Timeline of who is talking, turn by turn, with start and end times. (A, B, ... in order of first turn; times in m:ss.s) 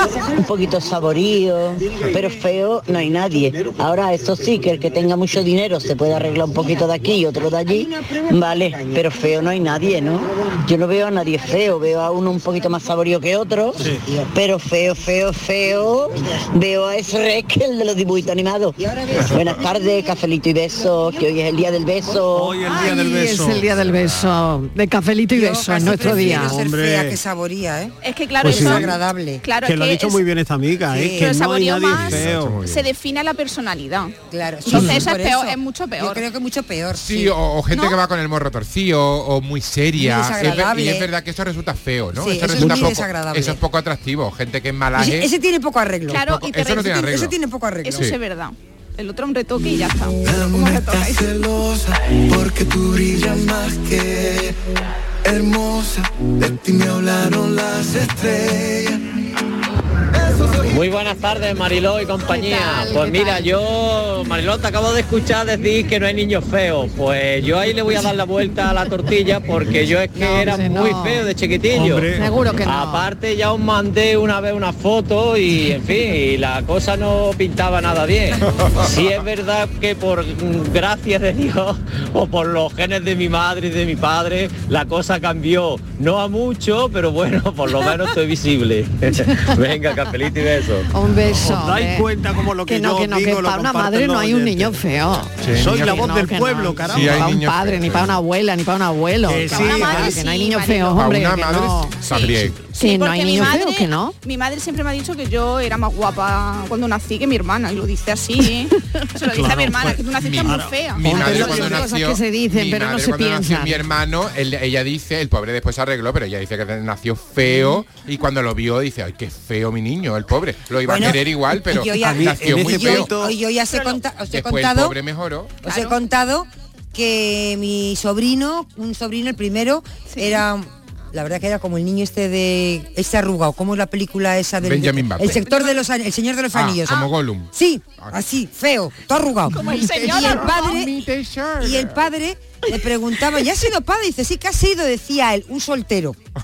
0:00.3-0:22.6 A
0:13.8-0:14.0 B
0:22.3-0:23.9 B
0:22.6-0:26.6 C
0:25.3-0:29.4 D
0:25.9-0:27.2 B
0:28.0-0:30.2 E
0:28.4-0:29.0 B
0:29.6-0:32.6 B
0:30.9-0:31.3 D
0:31.2-0:36.3 E
0:31.9-0:32.8 F
0:34.3-0:37.4 D
0:37.0-0:45.3 F
0:37.7-0:38.0 E
0:40.0-0:41.1 D
0:42.2-0:43.6 D
0:42.6-0:42.8 B
0:45.0-0:48.1 D
0:46.1-0:47.0 E
0:46.3-0:47.4 F
0:47.8-0:51.4 E
0:50.2-0:54.6 G
0:55.2-0:59.0 G
1:00.3-1:00.6 G
1:00.7-1:12.1 H
1:02.3-1:03.5 C
1:10.2-1:11.3 C
1:11.7-1:12.4 B
1:12.1-1:13.1 C
1:12.6-1:30.9 H
1:30.9-1:32.1 C
1:31.2-1:37.4 B
1:32.7-1:42.0 C
1:35.4-1:36.0 F
1:36.9-1:38.2 F
1:39.3-1:40.2 B
1:39.5-1:41.0 E
1:41.0-1:42.6 F
1:42.1-1:51.6 E
1:42.7-1:44.1 C
1:49.3-1:51.9 B
1:50.1-2:03.1 F
1:51.5-1:53.8 C
2:00.9-2:05.0 D
2:02.0-2:03.4 B
2:04.3-2:05.6 F
2:05.6-2:06.0 E
2:05.6-2:21.0 D
2:10.1-2:10.4 E
2:14.6-2:15.5 F
2:15.2-2:15.8 E
2:16.5-2:18.2 F
2:19.5-2:20.9 E
2:19.8-2:22.0 F
2:21.6-2:26.2 D